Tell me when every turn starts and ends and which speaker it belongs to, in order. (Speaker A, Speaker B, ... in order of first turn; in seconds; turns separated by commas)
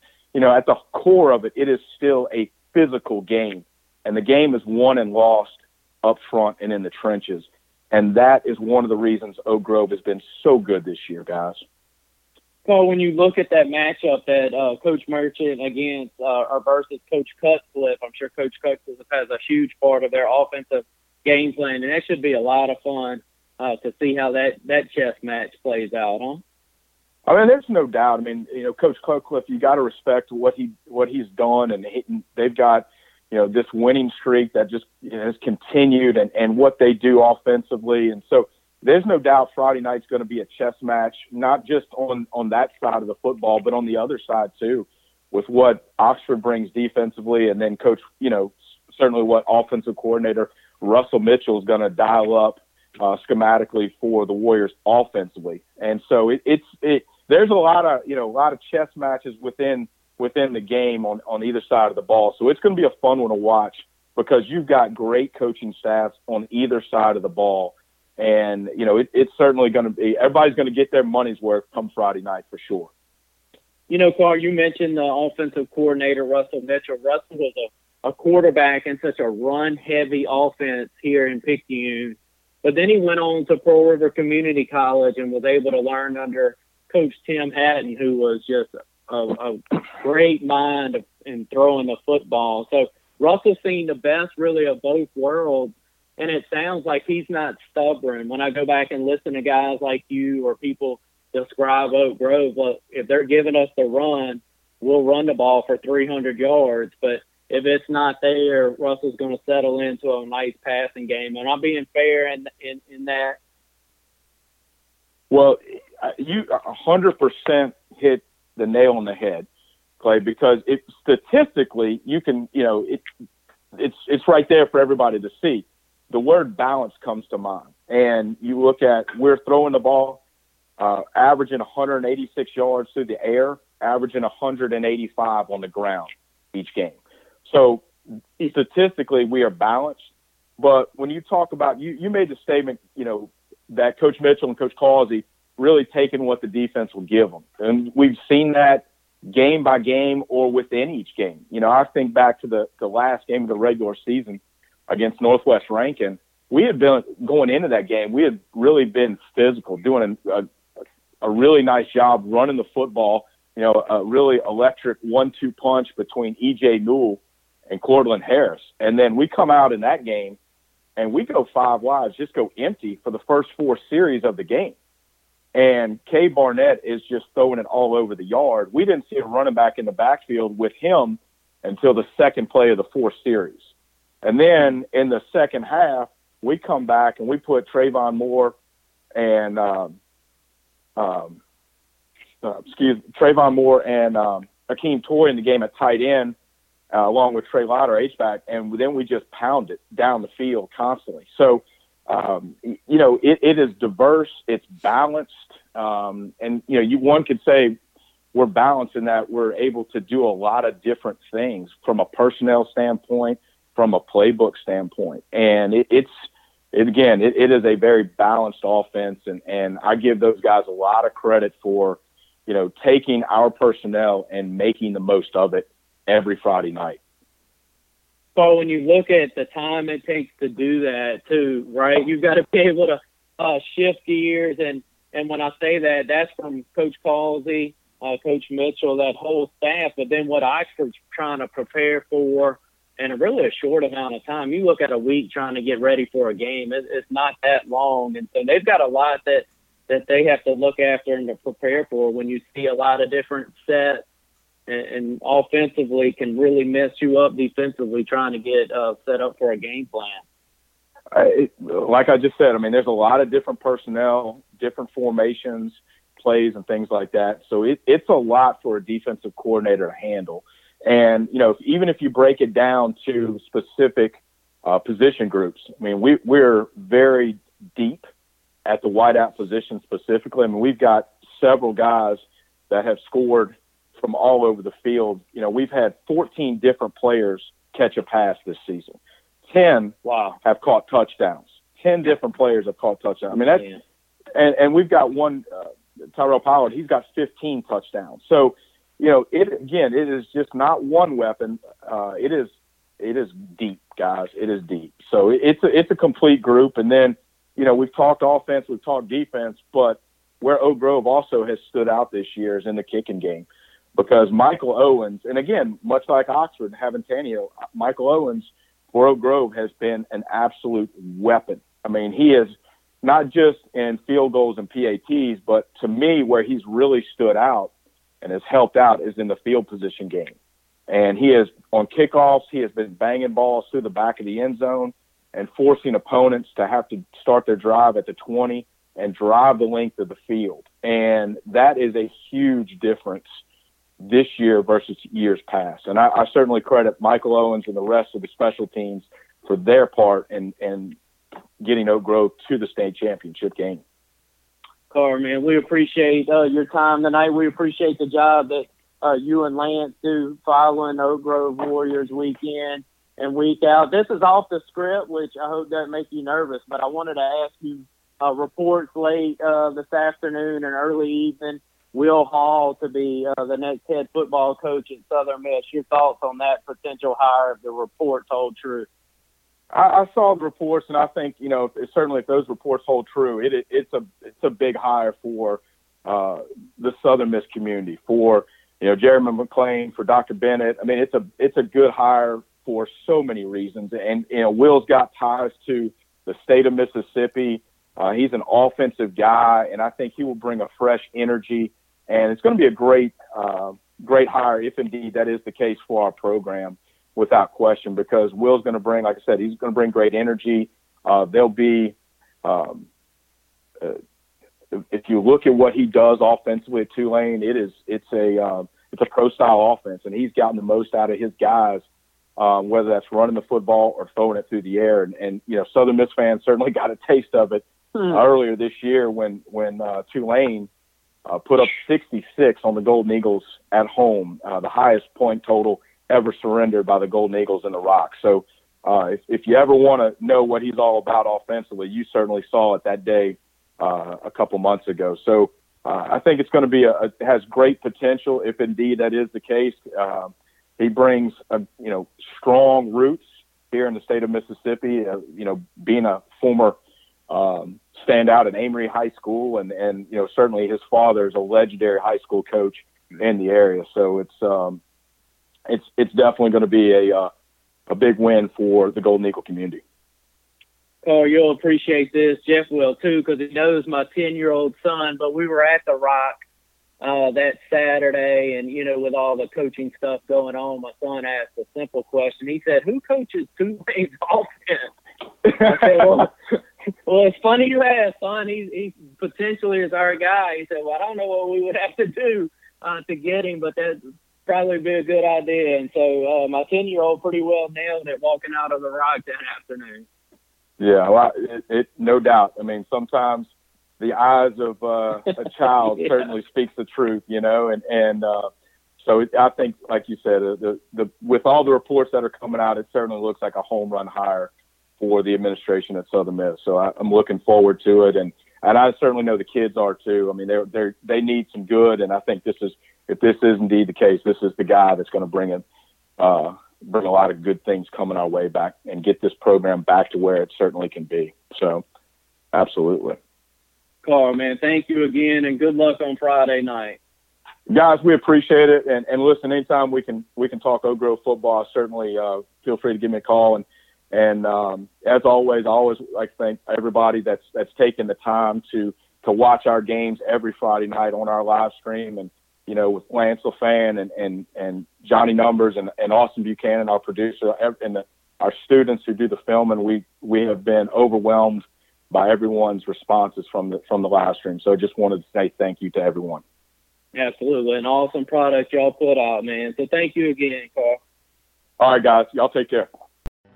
Speaker A: 0.3-11.6, Speaker B: 12.7-26.4, Speaker A: 27.3-72.9, Speaker B: 73.9-113.4, Speaker A: 115.3-119.5, Speaker A: 120.0-123.0, Speaker A: 123.7-130.2, Speaker A: 130.8-137.9, Speaker A: 138.4-140.0, Speaker A: 140.6-160.5, Speaker A: 161.2-170.4, Speaker A: 171.0-174.8, Speaker A: 175.5-183.6, Speaker A: 184.2-188.6, Speaker A: 189.2-190.0, Speaker A: 191.0-191.4, Speaker A: 192.4-196.4, Speaker A: 196.9-207.8, Speaker A: 208.3-216.1, Speaker A: 216.7-227.0, Speaker B: 228.4-254.0, Speaker B: 254.7-260.2, Speaker A: 261.1-278.1, Speaker A: 278.6-289.0, Speaker A: 289.5-293.6, Speaker B: 290.0-290.4, Speaker B: 293.3-293.8, Speaker A: 294.3-327.7, Speaker A: 328.2-330.4, Speaker A: 330.9-343.3, Speaker A: 344.0-351.0, Speaker A: 351.6-353.8, Speaker B: 354.9-378.9, Speaker A: 379.7-412.9, Speaker A: 414.7-421.8, Speaker A: 422.4-430.7, Speaker A: 431.3-456.8, Speaker A: 457.3-464.8, Speaker A: 465.7-467.3, Speaker A: 467.9-469.8, Speaker B: 471.0-476.4, Speaker B: 477.0-484.9, Speaker A: 485.4-486.3, Speaker B: 485.5-486.3, Speaker B: 487.1-500.1, Speaker A: 500.8-508.5, Speaker B: 505.9-506.1, Speaker A: 509.0-525.6, Speaker A: 526.2-531.8, Speaker A: 532.5-533.2, Speaker B: 534.0-537.0, Speaker A: 537.7-566.4, Speaker B: 567.1-571.0, Speaker A: 571.8-572.9